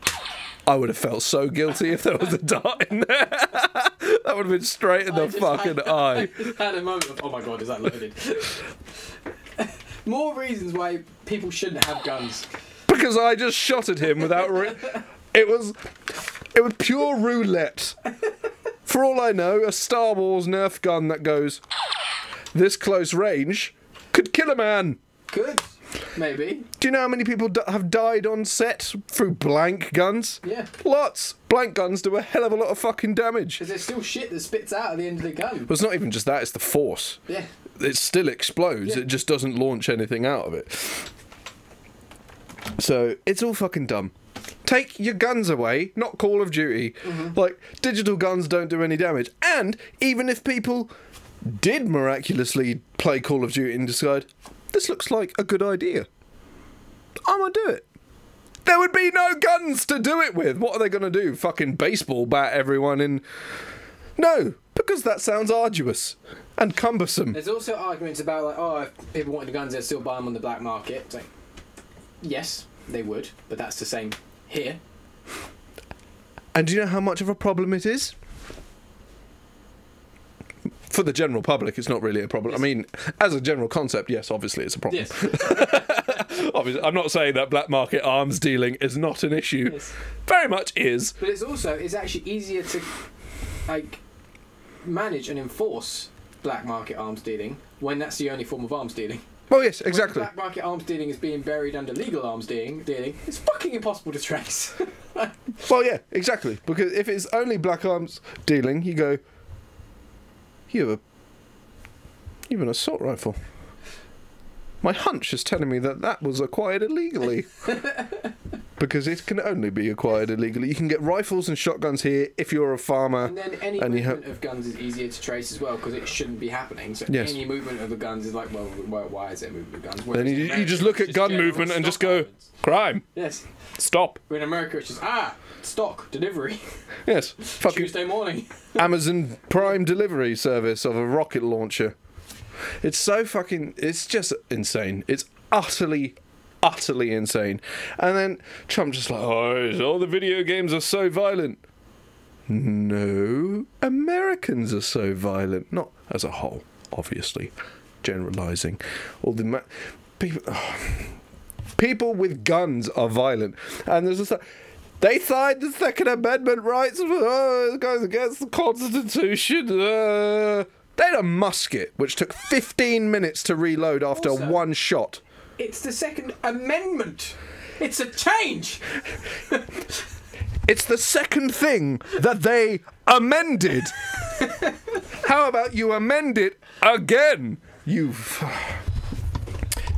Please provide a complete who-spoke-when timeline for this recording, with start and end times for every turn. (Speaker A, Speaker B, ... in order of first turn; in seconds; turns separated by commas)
Speaker A: 0.7-6.5, Speaker B: 5.1-8.7, Speaker B: 9.6-12.5, Speaker A: 12.9-18.0, Speaker A: 18.9-21.6, Speaker A: 22.5-25.0, Speaker B: 25.3-26.7, Speaker A: 26.8-33.6, Speaker B: 30.4-30.7, Speaker B: 33.6-35.7, Speaker A: 35.7-37.2, Speaker A: 37.8-41.1, Speaker A: 42.8-44.1, Speaker A: 44.6-50.9, Speaker B: 47.0-47.4, Speaker A: 51.4-56.1, Speaker A: 57.2-57.9, Speaker A: 58.6-63.2, Speaker A: 64.2-67.4, Speaker B: 67.3-71.3, Speaker B: 72.2-74.8, Speaker A: 76.5-78.2, Speaker A: 80.9-91.2, Speaker B: 84.9-86.2, Speaker B: 89.7-89.9, Speaker B: 91.2-92.9, Speaker B: 93.7-94.0, Speaker B: 94.8-99.2, Speaker A: 99.5-100.3, Speaker B: 99.8-105.3, Speaker A: 105.6-109.2, Speaker A: 110.7-111.0, Speaker A: 112.5-113.4, Speaker A: 114.8-117.7, Speaker A: 118.8-124.2, Speaker B: 123.2-132.5, Speaker A: 127.1-127.4, Speaker A: 130.1-133.1, Speaker B: 133.1-133.5, Speaker A: 133.8-134.2, Speaker B: 134.3-136.7, Speaker A: 137.1-138.0, Speaker B: 137.4-138.8, Speaker A: 138.8-141.9, Speaker A: 142.8-151.6, Speaker A: 152.5-161.2, Speaker A: 161.8-164.4, Speaker A: 165.0-175.2, Speaker B: 174.1-174.6, Speaker B: 175.6-179.8, Speaker A: 180.7-184.1, Speaker A: 185.1-188.8